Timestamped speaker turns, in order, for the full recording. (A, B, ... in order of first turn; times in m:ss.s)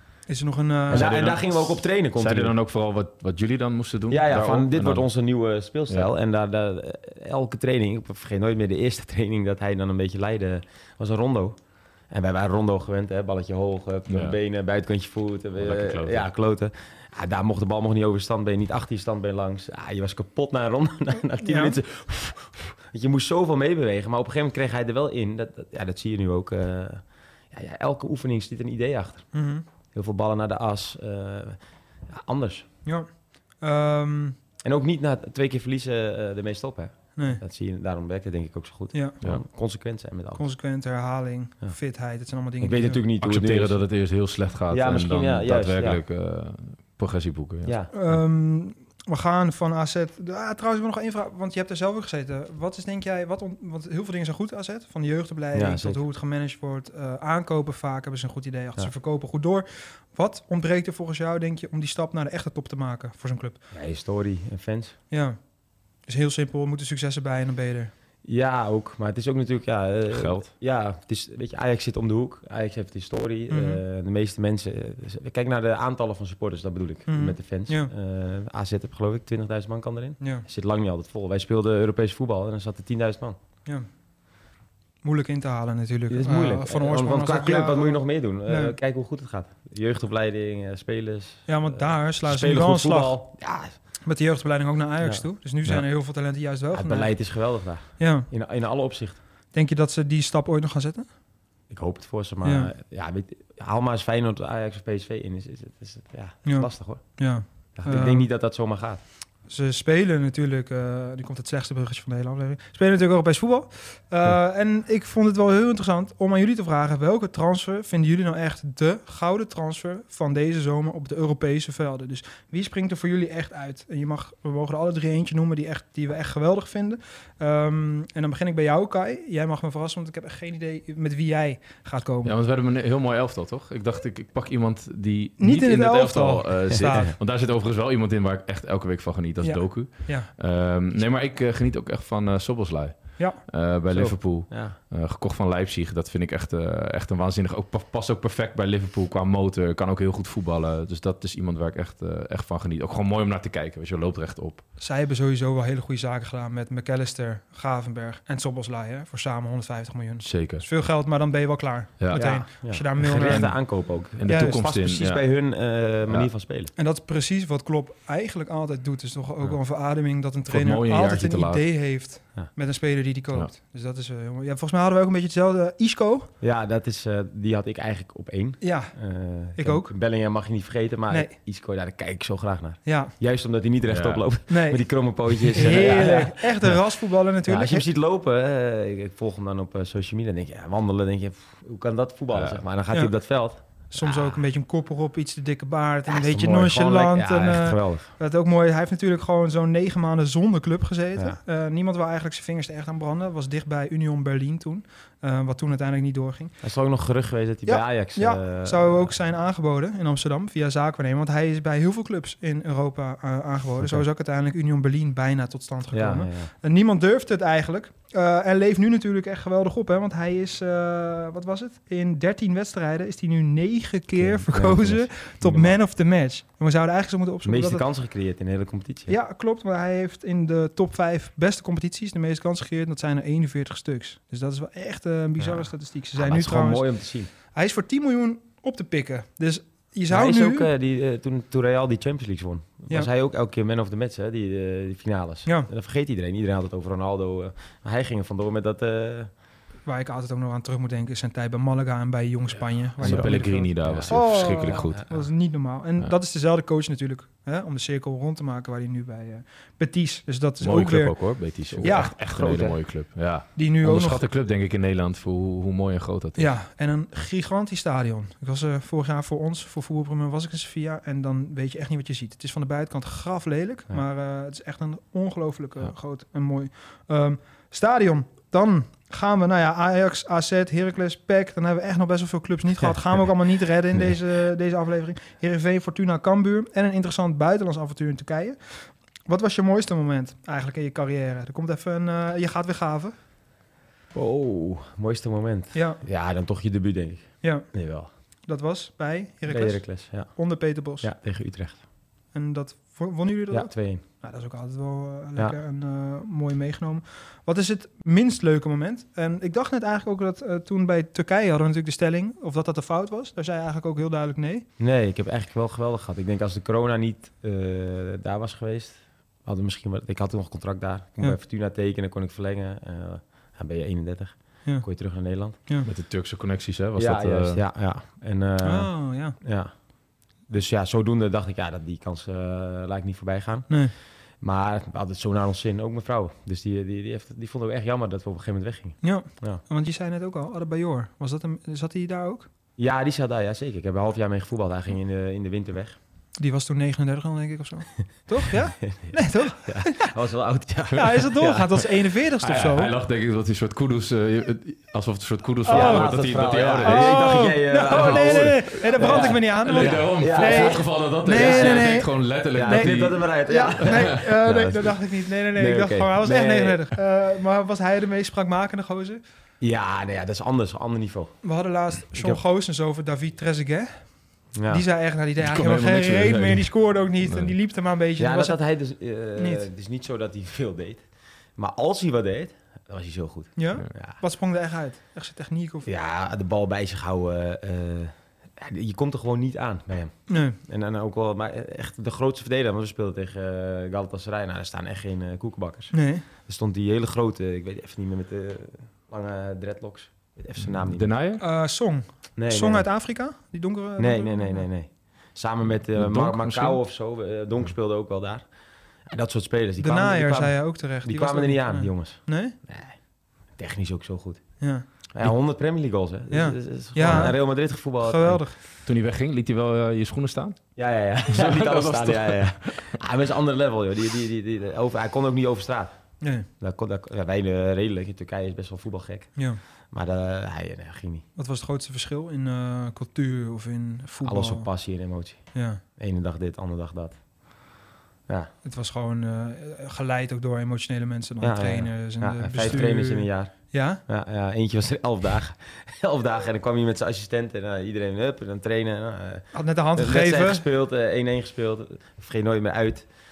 0:00.3-0:01.1 A
0:00.9-0:02.5 B
0:00.9-0:05.1 C
0:04.1-0:11.6 B
0:12.1-0:29.3 B
0:14.1-0:14.4 C
0:15.6-0:16.2 C
0:21.4-0:21.8 A
0:29.3-0:29.6 A
0:29.9-0:32.6 B
0:32.8-0:34.4 A
0:34.6-0:40.5 B
0:37.2-0:37.4 A
0:38.9-0:39.2 A
0:40.4-0:43.0 A
0:42.6-0:43.8 B
0:43.2-0:47.8 C
0:44.7-0:46.0 B
0:47.6-0:47.9 B
0:47.9-1:03.6 A
0:55.5-0:56.0 B
1:03.7-1:04.9 B
1:05.1-1:05.4 A
1:06.1-1:07.9 A
1:08.2-1:23.4 B
1:10.1-1:10.4 C
1:13.5-1:13.8 A
1:17.1-1:17.9 A
1:20.2-1:20.4 A
1:25.0-1:28.8 A
1:26.1-1:33.7 B
1:31.5-1:33.2 A
1:34.0-1:37.2 A
1:35.0-1:35.8 B
1:36.7-1:39.2 B
1:38.0-1:38.3 A
1:39.5-1:41.1 A
1:41.7-1:47.2 B
1:42.4-1:42.7 A
1:46.4-1:48.3 A
1:47.8-1:49.0 B
1:49.5-2:12.3 A
2:12.2-2:34.6 C
2:15.4-2:17.1 A
2:16.7-2:17.1 B
2:19.4-2:20.3 A
2:23.9-2:24.8 B
2:34.8-2:44.6 A
2:40.2-2:40.6 C
2:42.0-2:45.2 C
2:42.1-2:46.7 B
2:46.8-2:56.3 A
2:50.5-2:51.6 C
2:56.4-3:06.8 B
2:58.6-2:58.9 A
2:59.5-2:59.9 A
3:02.8-3:03.1 A
3:03.9-3:04.2 C
3:04.5-3:07.9 A
3:07.4-3:14.4 B
3:12.3-3:12.6 C
3:13.9-3:26.5 A
3:16.0-3:18.1 B
3:26.6-3:29.1 B
3:27.6-3:47.8 A
3:33.8-3:34.0 B
3:35.9-3:36.5 B
3:44.2-3:45.8 B
3:47.4-3:49.2 B
3:49.1-4:00.7 A
3:55.4-3:57.3 B
4:00.1-4:09.3 B
4:09.8-4:22.2 A
4:13.0-4:15.3 B
4:13.0-4:15.2 C
4:20.6-4:26.5 C
4:21.6-4:22.8 B
4:23.6-4:24.2 A
4:26.4-4:53.1 A
4:54.1-4:58.1 B
4:55.7-4:56.0 A
4:58.5-5:01.1 A
4:59.4-5:00.3 B
5:01.0-5:01.8 B
5:02.3-5:14.6 A
5:03.5-5:04.0 B
5:14.8-5:25.6 B
5:25.8-5:27.6 C
5:27.0-5:29.7 B
5:28.6-5:29.4 A
5:30.5-5:39.6 B
5:39.0-5:42.5 A
5:42.8-5:46.0 B
5:46.4-5:50.1 A
5:48.8-5:51.9 B
5:50.9-5:52.9 A
5:52.4-6:04.0 C
5:55.6-5:56.2 A
5:55.7-6:06.8 B
5:56.8-6:09.2 A
6:09.6-6:11.5 B
6:11.4-6:18.6 A
6:12.1-6:12.4 B
6:14.5-6:14.8 B
6:15.4-6:17.5 C
6:18.2-6:24.2 B
6:19.3-6:19.7 A
6:23.6-6:25.9 A
6:25.8-6:41.1 B
6:30.3-6:30.6 A
6:35.9-6:36.2 A
6:40.6-6:41.4 C
6:41.4-6:44.6 A
6:42.4-6:42.9 B
6:44.0-6:48.5 B
6:46.0-6:46.8 C
6:49.0-6:53.0 B
6:49.8-6:52.6 A
6:53.5-6:54.5 B
6:54.6-6:54.8 A
6:55.1-6:58.4 B
6:56.3-6:58.5 A
6:58.8-7:00.6 C
7:00.8-7:05.9 B
7:01.3-7:03.0 C
7:06.2-7:06.5 A
7:06.6-7:11.2 B
7:11.4-7:14.7 A
7:14.2-7:17.2 B
7:15.5-7:15.8 A
7:18.6-7:24.0 A
7:21.4-7:33.1 B
7:29.5-7:30.6 A